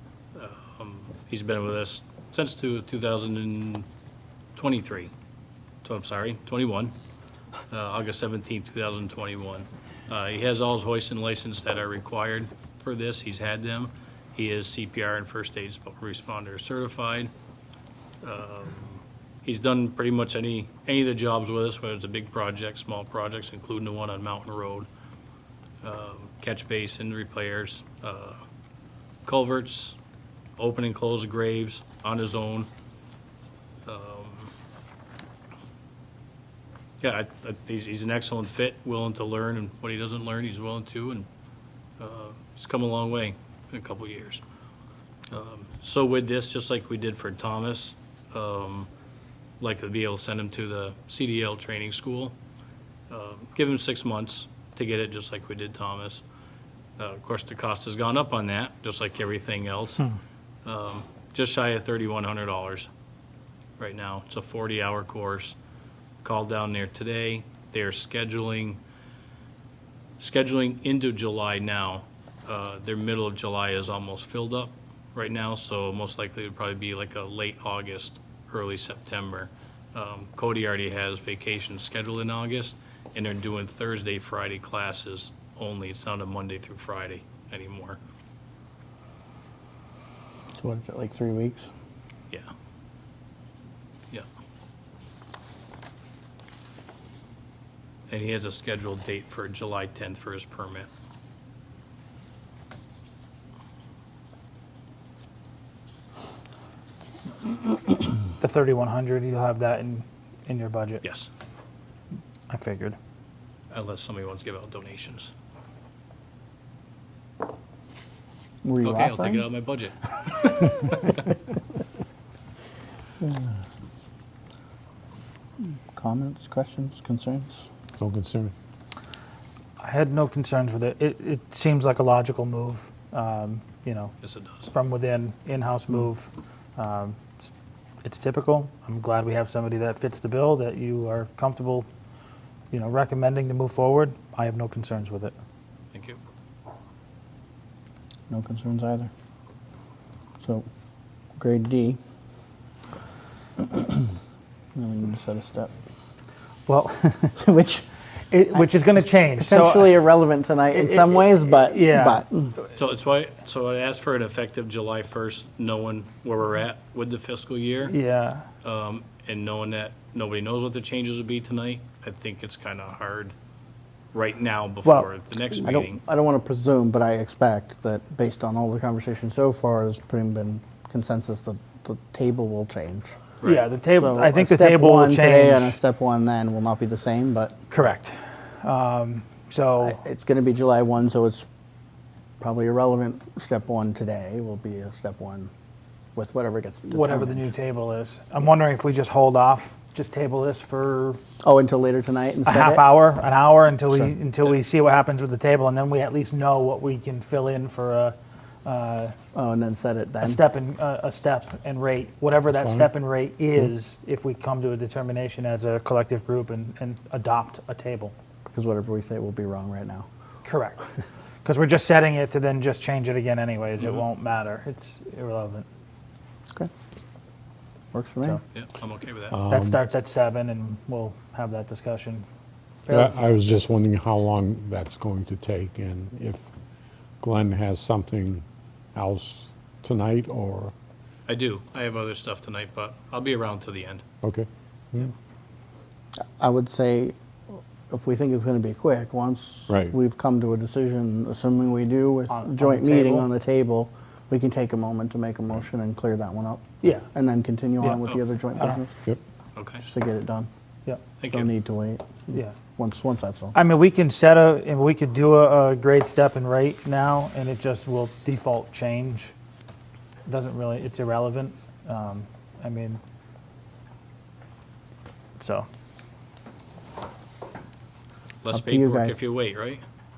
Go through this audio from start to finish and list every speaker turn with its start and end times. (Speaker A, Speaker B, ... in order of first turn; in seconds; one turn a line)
Speaker A: 0.3-3.9
Speaker A: 4.5-5.1
Speaker A: 5.8-7.0
Speaker A: 7.7-17.3
Speaker A: 18.2-24.9
Speaker A: 25.8-28.4
Speaker A: 29.2-29.9
Speaker A: 30.6-32.7
Speaker A: 33.9-34.5
Speaker A: 37.0-41.3
Speaker A: 42.0-44.4
Speaker A: 45.3-48.9
Speaker A: 49.6-52.4
Speaker A: 53.1-56.2
Speaker A: 57.0-60.0
Speaker A: 60.6-62.9
Speaker A: 63.8-65.5
Speaker A: 66.2-68.8
Speaker A: 70.2-88.0
Speaker B: 90.6-91.7
Speaker A: 98.1-100.9
Speaker C: 108.4-111.0
Speaker A: 111.0-111.3
Speaker C: 112.5-113.0
Speaker A: 113.7-115.3
Speaker B: 118.6-119.5
Speaker A: 118.8-121.3
Speaker B: 123.2-123.6
Speaker B: 125.7-127.6
Speaker D: 128.0-128.5
Speaker C: 129.8-134.1
Speaker A: 134.2-134.7
Speaker C: 134.7-137.5
Speaker C: 138.0-141.9
Speaker C: 142.7-145.3
Speaker A: 145.9-146.2
Speaker B: 148.3-149.1
Speaker B: 150.4-150.6
Speaker B: 151.4-152.0
Speaker B: 153.6-154.0
Speaker B: 154.8-155.7
Speaker C: 156.7-157.4
Speaker B: 157.4-157.8
Speaker C: 158.3-160.0
Speaker B: 158.5-162.5
Speaker C: 160.7-162.2
Speaker A: 162.8-167.9
Speaker C: 167.8-168.5
Speaker A: 168.6-173.3
Speaker A: 174.1-176.0
Speaker B: 175.6-183.1
Speaker A: 183.4-183.7
Speaker C: 183.4-185.8
Speaker B: 183.9-187.6
Speaker C: 187.7-190.0
Speaker B: 189.8-191.4
Speaker B: 192.4-195.5
Speaker B: 196.2-197.5
Speaker C: 196.9-201.2
Speaker B: 201.4-202.9
Speaker C: 202.4-209.1
Speaker B: 209.3-210.4
Speaker C: 210.2-218.1
Speaker D: 212.5-212.9
Speaker B: 218.5-220.1
Speaker C: 220.4-220.8
Speaker C: 221.4-225.7
Speaker B: 227.9-228.4
Speaker A: 228.5-229.3
Speaker D: 229.3-229.8
Speaker C: 229.5-232.2
Speaker C: 232.9-233.3
Speaker D: 232.9-236.5
Speaker D: 237.2-240.7
Speaker A: 241.3-244.0
Speaker D: 244.2-245.1
Speaker B: 246.4-247.2
Speaker B: 247.9-258.9
Speaker D: 249.7-249.9
Speaker C: 252.3-253.3
Speaker C: 256.8-257.1
Speaker A: 259.6-259.9
Speaker B: 259.8-260.5
Speaker A: 261.2-261.5
Speaker B: 261.3-263.6
Speaker C: 263.5-269.3
Speaker C: 270.3-273.0
Speaker C: 275.4-275.7
Speaker A: 278.4-279.8
Speaker B: 278.5-279.2